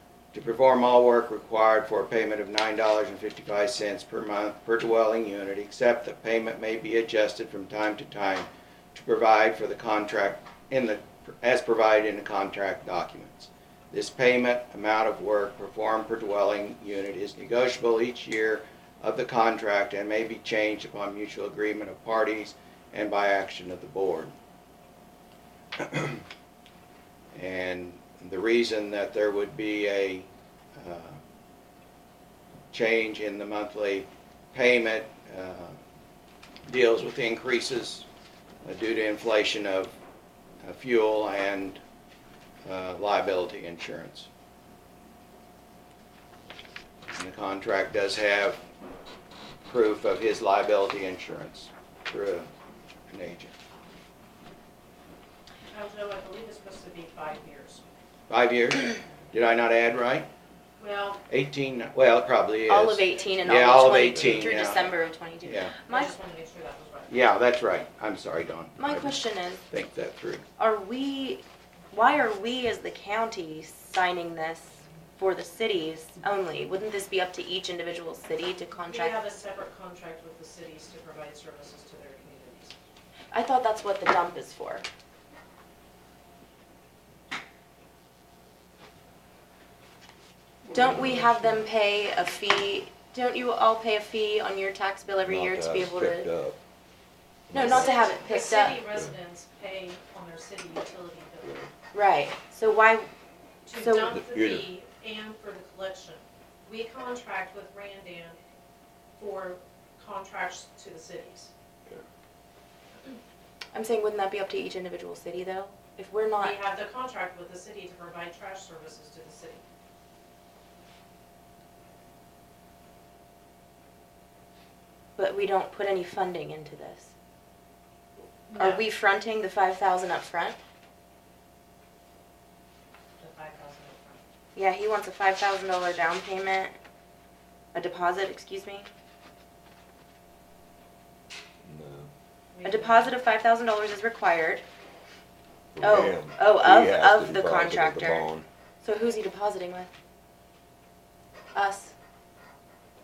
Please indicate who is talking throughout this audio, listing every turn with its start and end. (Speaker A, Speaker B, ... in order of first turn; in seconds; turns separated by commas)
Speaker A: 0.3-24.3, Speaker A: 25.8-26.2, Speaker A: 27.3-31.2, Speaker A: 32.7-35.8, Speaker A: 36.7-38.0, Speaker A: 38.6-40.0, Speaker A: 40.6-41.8, Speaker A: 42.7-44.3, Speaker A: 47.1-48.6, Speaker A: 49.6-52.5, Speaker A: 53.1-53.5, Speaker B: 55.7-57.8, Speaker A: 58.3-60.3, Speaker B: 60.8-61.2, Speaker A: 61.3-65.8, Speaker C: 62.7-66.1, Speaker B: 65.9-67.2, Speaker A: 67.1-70.5, Speaker C: 68.8-69.6, Speaker C: 70.6-79.2, Speaker B: 78.9-82.8, Speaker C: 83.3-84.8, Speaker D: 90.7-91.7, Speaker C: 90.7-96.3, Speaker D: 95.2-96.6, Speaker D: 97.5-98.0, Speaker C: 97.5-98.8, Speaker B: 97.6-101.6, Speaker C: 101.9-103.1, Speaker B: 103.7-108.4, Speaker C: 103.8-104.2, Speaker D: 104.1-104.7, Speaker B: 109.2-111.5, Speaker C: 113.7-116.6, Speaker B: 116.4-119.6, Speaker C: 125.2-127.1, Speaker B: 128.5-128.8, Speaker C: 128.6-130.6, Speaker B: 133.2-134.2, Speaker C: 134.5-136.8, Speaker C: 137.7-138.9, Speaker D: 141.6-142.1, Speaker B: 142.5-143.1, Speaker C: 142.6-144.6, Speaker D: 145.7-148.4, Speaker C: 145.8-148.3, Speaker C: 148.8-149.9, Speaker C: 151.5-151.9